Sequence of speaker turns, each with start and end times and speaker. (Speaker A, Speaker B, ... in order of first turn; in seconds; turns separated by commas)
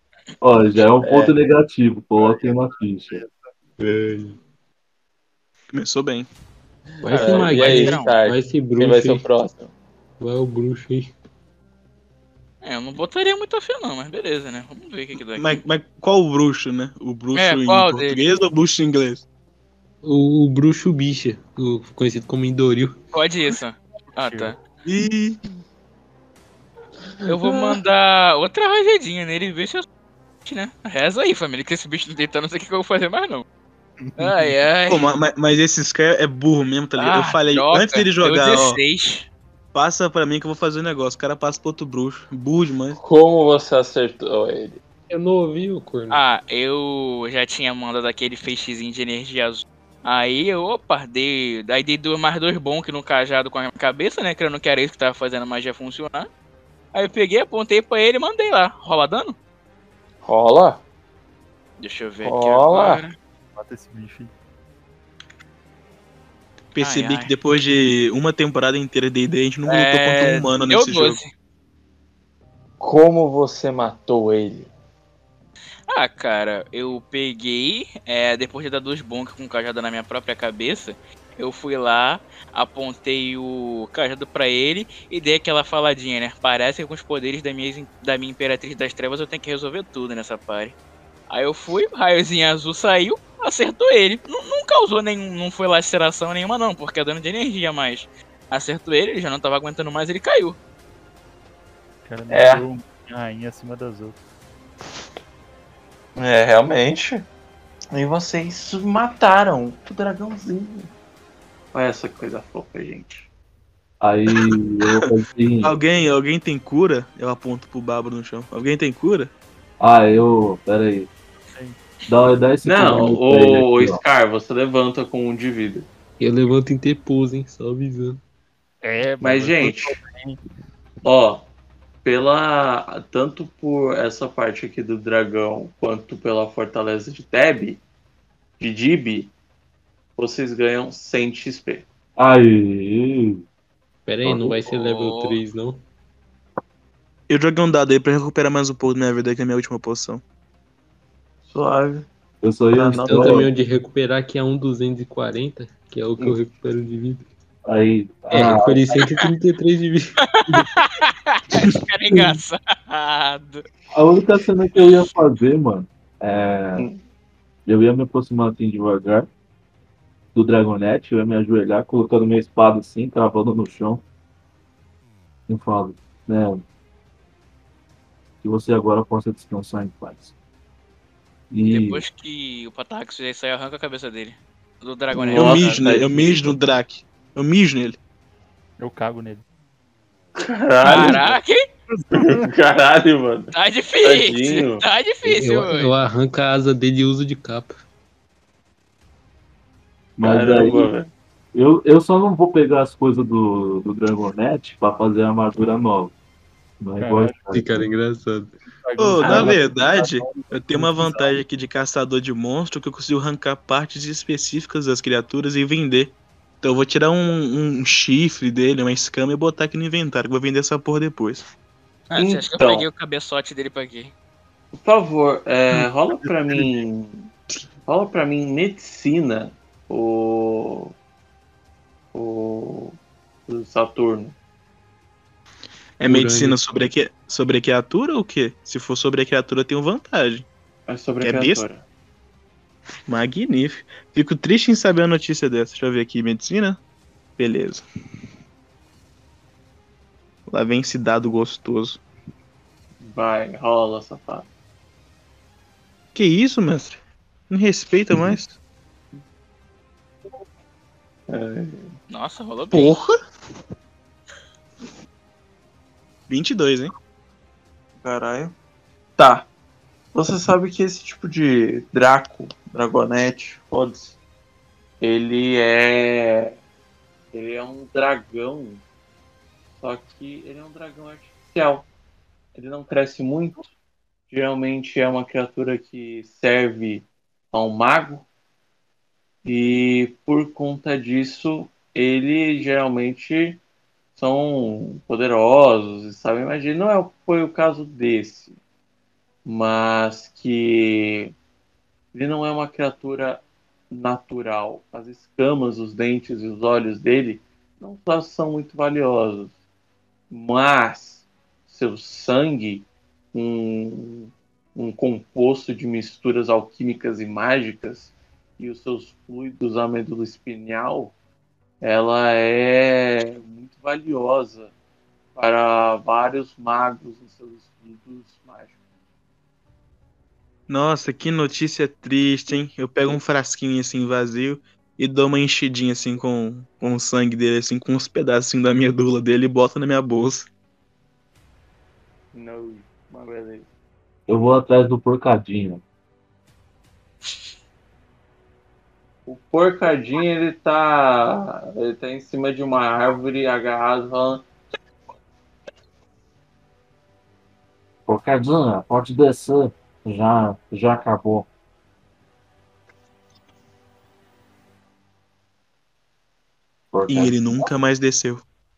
Speaker A: 0.4-3.2, Speaker B: 1.0-1.3, Speaker C: 2.2-3.5, Speaker D: 3.8-4.4, Speaker E: 5.7-6.3, Speaker D: 7.0-9.2, Speaker B: 7.0-9.7, Speaker F: 7.1-8.2, Speaker C: 7.2-7.5, Speaker D: 10.2-11.1, Speaker F: 12.6-15.6, Speaker E: 15.4-19.2, Speaker F: 17.4-18.3, Speaker D: 20.0-23.0, Speaker F: 23.1-24.6, Speaker C: 24.1-24.6, Speaker E: 24.9-25.4, Speaker F: 27.3-29.9, Speaker B: 27.4-27.7, Speaker F: 30.4-33.5, Speaker C: 34.0-34.5, Speaker F: 34.2-35.0, Speaker E: 34.9-38.8, Speaker F: 37.0-39.3, Speaker E: 39.7-43.0, Speaker B: 43.0-44.8, Speaker D: 45.1-46.2, Speaker F: 46.1-56.3, Speaker F: 56.9-59.4, Speaker B: 60.2-60.8, Speaker F: 61.8-63.2, Speaker B: 62.2-63.0, Speaker C: 63.5-64.3, Speaker E: 66.8-71.2, Speaker F: 66.8-67.3, Speaker F: 69.7-71.3, Speaker B: 72.8-74.7, Speaker F: 75.9-90.8, Speaker F: 91.3-100.6, Speaker C: 102.0-104.2, Speaker B: 102.3-102.7, Speaker B: 106.2-107.2, Speaker B: 107.9-110.9, Speaker B: 111.7-113.3, Speaker A: 114.0-115.8, Speaker E: 115.6-119.3, Speaker A: 119.8-121.1, Speaker C: 121.5-121.8, Speaker A: 122.1-124.0, Speaker B: 122.7-125.9, Speaker D: 126.2-128.2, Speaker C: 128.8-130.4, Speaker B: 129.2-130.0, Speaker B: 131.0-131.5, Speaker B: 132.0-137.8, Speaker B: 138.6-139.3, Speaker B: 140.2-141.8, Speaker A: 142.2-143.4, Speaker D: 144.1-145.8, Speaker A: 144.2-144.6, Speaker F: 144.7-145.4, Speaker E: 147.3-150.2, Speaker B: 151.5-152.1, Speaker A: 152.4-153.5, Speaker B: 152.8-153.5, Speaker D: 153.0-157.3, Speaker A: 157.7-159.1, Speaker D: 158.3-160.7, Speaker F: 160.3-163.7, Speaker A: 163.9-166.9, Speaker B: 166.8-167.0, Speaker A: 167.7-169.3, Speaker A: 170.3-174.0, Speaker A: 175.5-176.7, Speaker A: 178.4-180.3, Speaker A: 181.5-182.0, Speaker F: 181.7-185.7, Speaker B: 185.2-186.4, Speaker E: 185.3-188.0, Speaker C: 188.8-189.4, Speaker B: 190.4-191.4, Speaker F: 190.8-191.7, Speaker C: 190.9-191.2, Speaker C: 191.9-192.5, Speaker B: 192.1-194.8, Speaker F: 193.5-195.9, Speaker D: 195.2-197.7, Speaker A: 200.2-200.9, Speaker B: 200.2-201.1, Speaker A: 201.5-206.1, Speaker A: 206.8-207.6, Speaker C: 207.0-207.5, Speaker D: 207.5-208.6, Speaker C: 208.6-211.4, Speaker E: 209.0-221.4, Speaker B: 209.2-209.6, Speaker F: 222.1-224.1, Speaker B: 222.2-222.9, Speaker B: 224.8-227.3, Speaker C: 226.2-226.8, Speaker B: 227.8-230.9, Speaker B: 232.1-233.0, Speaker B: 233.5-234.3, Speaker E: 236.0-240.5, Speaker D: 236.1-236.6, Speaker B: 240.9-241.8, Speaker E: 241.2-241.6, Speaker E: 243.1-246.8, Speaker E: 247.4-247.8, Speaker E: 250.5-252.0, Speaker B: 253.0-254.5, Speaker E: 256.1-258.6, Speaker B: 261.3-261.9, Speaker F: 262.1-262.9, Speaker B: 262.7-263.1, Speaker E: 266.3-266.9, Speaker B: 268.0-268.5, Speaker B: 269.2-269.5, Speaker B: 270.1-274.2, Speaker B: 275.0-276.6, Speaker B: 277.3-278.8, Speaker B: 279.8-281.9, Speaker B: 282.6-283.7, Speaker B: 284.3-288.3, Speaker B: 289.4-293.6, Speaker B: 294.2-298.6, Speaker B: 299.4-301.3, Speaker B: 302.1-309.5, Speaker B: 310.3-321.1, Speaker B: 321.8-324.7, Speaker B: 325.4-328.8, Speaker E: 330.7-340.5, Speaker B: 342.3-343.7, Speaker A: 344.3-345.8, Speaker B: 349.3-354.5, Speaker A: 358.1-361.5, Speaker A: 366.9-367.5, Speaker E: 367.1-368.4